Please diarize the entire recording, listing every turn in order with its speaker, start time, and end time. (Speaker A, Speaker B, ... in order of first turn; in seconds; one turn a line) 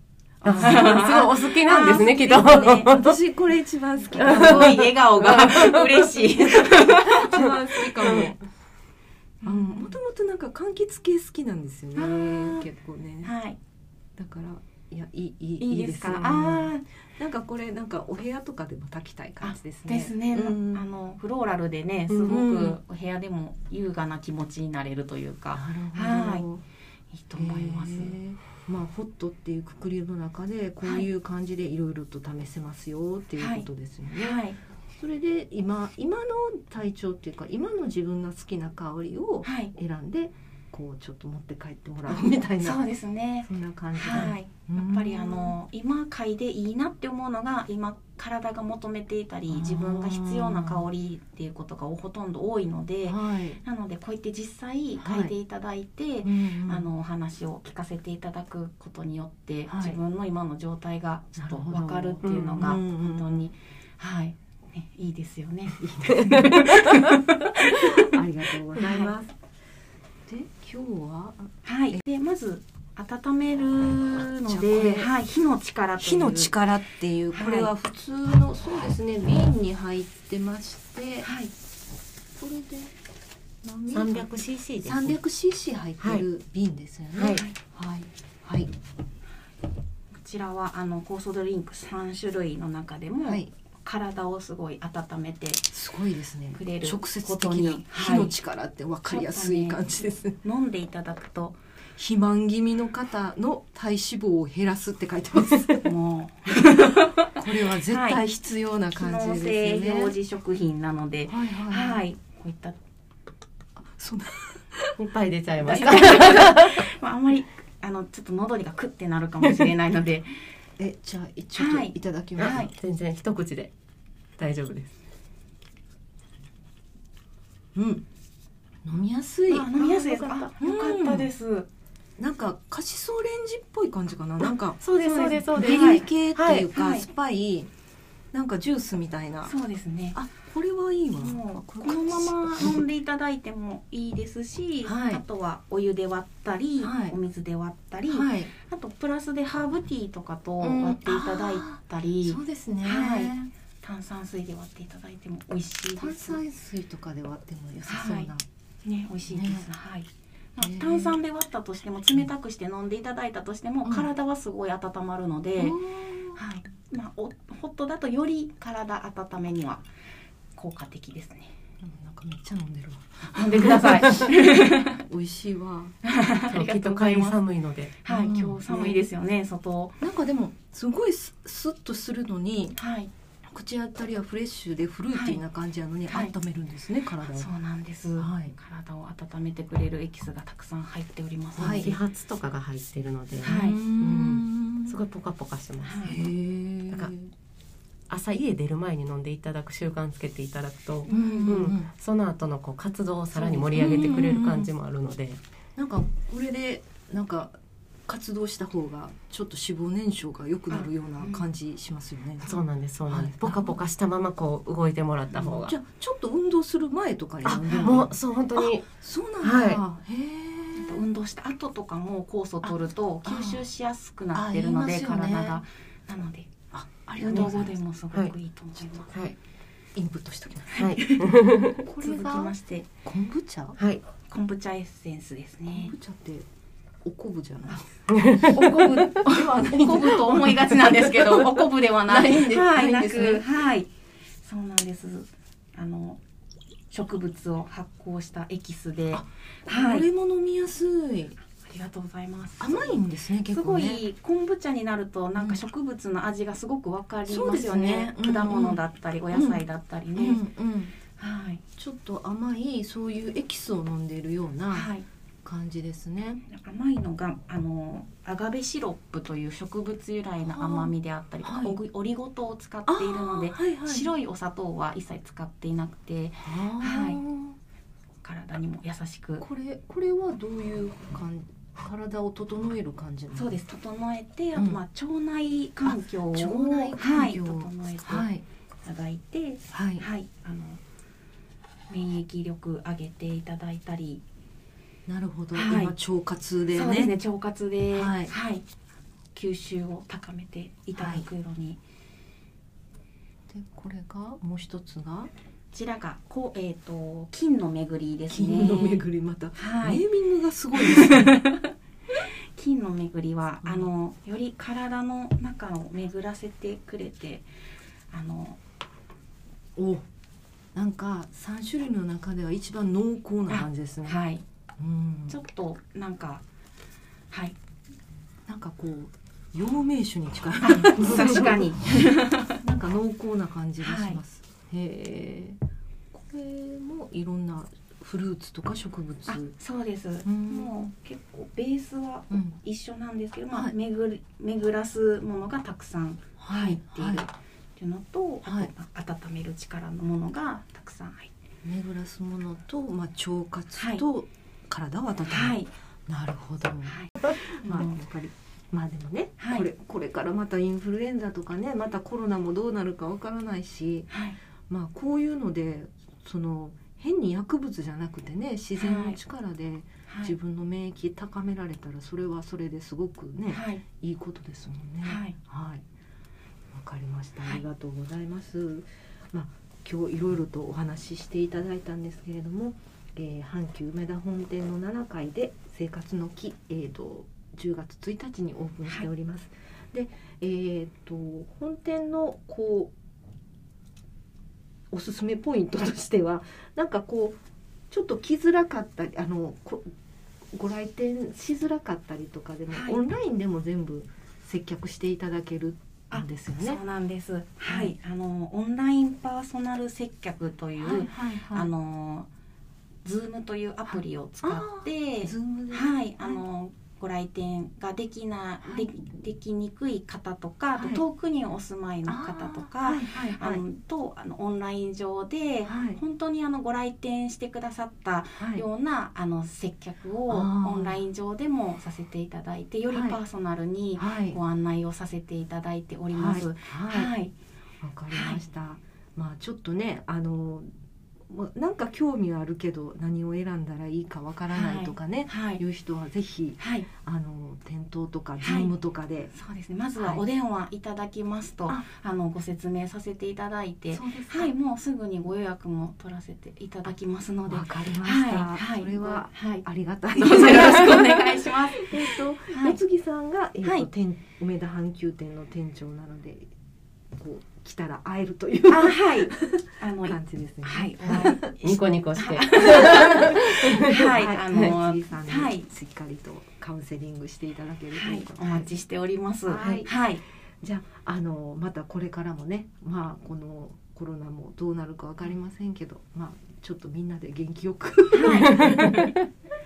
Speaker A: 0.4-8.4
Speaker B: 0.4-2.9
Speaker C: 0.4-3.2
Speaker B: 4.0-7.6
Speaker C: 4.2-4.7
Speaker C: 8.0-8.3
Speaker B: 9.4-10.0
Speaker A: 9.4-13.3
Speaker B: 11.9-12.7
Speaker B: 13.2-13.6
Speaker A: 14.2-20.9
Speaker B: 15.6-16.8
Speaker B: 19.4-26.5
Speaker C: 22.1-22.4
Speaker A: 22.3-22.8
Speaker A: 25.6-26.6
Speaker B: 27.1-28.2
Speaker A: 27.4-34.4
Speaker B: 33.4-34.6
Speaker A: 35.0-42.9
Speaker B: 39.4-39.7
Speaker B: 42.1-68.0
Speaker A: 43.5-45.6
Speaker A: 49.5-50.9
Speaker A: 53.0-53.6
Speaker A: 55.0-55.3
Speaker A: 56.2-56.9
Speaker A: 59.7-60.0
Speaker A: 61.4-63.5
Speaker C: 62.2-62.6
Speaker A: 65.8-69.3
Speaker C: 66.4-67.1
Speaker B: 68.8-69.1
Speaker A: 70.3-72.0
Speaker B: 71.7-76.5
Speaker A: 74.4-75.1
Speaker A: 76.0-81.3
Speaker B: 77.3-77.7
Speaker B: 81.2-81.5
Speaker A: 82.4-82.9
Speaker A: 83.6-84.3
Speaker C: 83.9-85.2
Speaker A: 84.8-88.7
Speaker C: 86.0-86.2
Speaker C: 87.2-87.4
Speaker B: 90.1-95.7
Speaker A: 93.2-93.5
Speaker A: 95.7-100.4
Speaker B: 96.5-98.3
Speaker B: 99.1-99.9
Speaker B: 100.4-101.6
Speaker A: 102.0-105.9
Speaker B: 105.8-108.2
Speaker A: 106.6-110.2
Speaker B: 109.0-112.8
Speaker A: 111.3-112.0
Speaker A: 113.8-115.0
Speaker C: 115.0-116.9
Speaker B: 115.6-120.4
Speaker A: 120.8-122.7
Speaker B: 121.6-122.7
Speaker C: 122.4-123.7
Speaker C: 124.4-125.0
Speaker A: 127.8-128.1
Speaker A: 128.8-131.3
Speaker B: 129.5-131.7
Speaker A: 132.2-137.7
Speaker C: 134.8-136.7
Speaker B: 135.0-136.1
Speaker B: 136.7-137.1
Speaker A: 138.3-139.5
Speaker B: 139.4-140.2
Speaker A: 140.1-142.8
Speaker B: 141.2-156.4
Speaker A: 144.8-145.2
Speaker A: 146.8-147.2
Speaker A: 148.1-148.5
Speaker A: 150.6-153.5
Speaker A: 156.0-158.4
Speaker B: 157.9-158.3
Speaker B: 158.8-165.8
Speaker A: 159.3-159.7
Speaker A: 160.6-161.2
Speaker A: 163.8-164.1
Speaker A: 165.6-166.4
Speaker B: 166.3-169.8
Speaker B: 170.6-171.5
Speaker A: 171.8-176.0
Speaker B: 173.3-175.0
Speaker B: 176.0-177.4
Speaker C: 176.5-178.0
Speaker B: 178.0-180.0
Speaker A: 178.1-179.0
Speaker A: 180.0-182.8
Speaker B: 182.8-183.1
Speaker A: 183.4-187.5
Speaker B: 185.1-185.4
Speaker B: 187.2-192.0
Speaker A: 188.2-188.6
Speaker A: 191.6-191.9
Speaker C: 191.6-196.3
Speaker A: 193.4-195.0
Speaker B: 193.4-193.8
Speaker B: 195.8-196.2
Speaker A: 196.0-197.3
Speaker C: 198.1-205.4
Speaker B: 201.1-201.6
Speaker A: 201.1-201.9
Speaker A: 203.3-204.7
Speaker A: 205.8-207.6
Speaker A: 208.1-212.5
Speaker B: 210.7-211.5
Speaker C: 212.4-215.7
Speaker A: 213.1-213.8
Speaker A: 215.3-221.0
Speaker C: 217.4-218.9
Speaker C: 219.4-219.8
Speaker B: 220.8-226.5
Speaker A: 223.2-223.7
Speaker A: 224.3-225.6
Speaker A: 226.7-227.8
Speaker B: 227.2-229.1
Speaker A: 229.9-230.9
Speaker B: 230.7-232.9
Speaker C: 230.8-231.8
Speaker A: 231.8-233.8
Speaker C: 233.8-234.0
Speaker B: 234.3-235.9
Speaker A: 235.7-236.5
Speaker A: 237.0-243.4
Speaker C: 238.1-238.8
Speaker B: 238.3-243.9
Speaker B: 244.4-246.2
Speaker B: 246.9-250.1
Speaker A: 249.1-251.4
Speaker B: 251.6-260.4
Speaker A: 252.6-254.0
Speaker A: 255.4-255.6
Speaker A: 257.3-258.8
Speaker A: 259.3-259.6
Speaker A: 260.2-260.9
Speaker B: 261.2-261.6
Speaker A: 261.8-264.9
Speaker B: 264.7-265.1
Speaker A: 265.4-266.4
Speaker B: 266.4-277.2
Speaker A: 270.6-270.9
Speaker A: 271.4-271.8
Speaker A: 272.9-274.1
Speaker A: 276.4-277.6
Speaker B: 278.2-279.4
Speaker A: 279.4-283.6
Speaker B: 283.3-288.3
Speaker A: 284.6-284.8
Speaker A: 285.9-288.4
Speaker B: 288.8-290.8
Speaker A: 289.7-290.1
Speaker B: 291.9-294.2
Speaker A: 295.1-297.1
Speaker B: 295.5-295.9
Speaker B: 296.7-298.7
Speaker A: 297.9-298.3
Speaker B: 299.3-301.8
Speaker A: 301.0-301.3
Speaker A: 303.5-305.3
Speaker B: 305.7-309.0
Speaker A: 308.3-311.4
Speaker B: 309.6-310.0
Speaker B: 310.7-317.5
Speaker B: 318.1-318.6
Speaker A: 319.8-320.1
Speaker A: 320.7-324.2
Speaker B: 323.5-324.4
Speaker A: 324.8-325.4
Speaker B: 325.3-326.4
Speaker B: 327.3-327.6
Speaker A: 328.5-332.0
Speaker B: 330.6-332.6
Speaker A: 332.6-335.6
Speaker B: 333.8-334.2
Speaker A: 336.1-339.5
Speaker B: 339.3-351.3
Speaker A: 340.2-340.9
Speaker A: 342.3-342.6
Speaker A: 346.4-347.2
Speaker A: 348.5-348.7
Speaker A: 351.6-364.1
Speaker B: 353.8-354.0
Speaker B: 355.3-355.7
Speaker B: 356.9-357.9
Speaker B: 359.4-359.7
Speaker B: 364.1-364.4
Speaker A: 364.7-375.8
Speaker B: 368.8-369.2
Speaker B: 370.1-370.3
Speaker B: 373.5-373.8
Speaker B: 375.0-375.4
Speaker A: 376.7-392.9
Speaker A: 394.9-399.9
Speaker A: 400.5-406.8
Speaker B: 402.7-403.0
Speaker B: 406.1-412.3
Speaker A: 407.7-407.9
Speaker A: 410.8-411.7
Speaker B: 413.1-437.3
Speaker A: 413.9-416.4
Speaker A: 420.8-421.0
Speaker A: 422.1-423.6
Speaker A: 425.7-426.0
Speaker A: 428.4-428.6
Speaker A: 430.3-431.0
Speaker A: 432.9-433.2
Speaker A: 434.0-434.4
Speaker A: 436.1-437.1
Speaker A: 437.8-440.7
Speaker B: 438.1-438.4
Speaker A: 441.3-449.3
Speaker B: 444.5-445.6
Speaker B: 446.6-446.9
Speaker B: 448.4-448.7
Speaker B: 449.3-462.8
Speaker A: 450.0-450.2
Speaker A: 453.9-454.5
Speaker A: 457.5-466.5
Speaker A: 467.1-471.5
Speaker B: 468.7-475.7
Speaker C: 471.5-474.1
Speaker A: 472.5-478.7
Speaker B: 477.9-480.2
Speaker A: 479.5-480.0
Speaker A: 480.6-489.2
Speaker B: 488.1-489.0
Speaker C: 488.5-489.0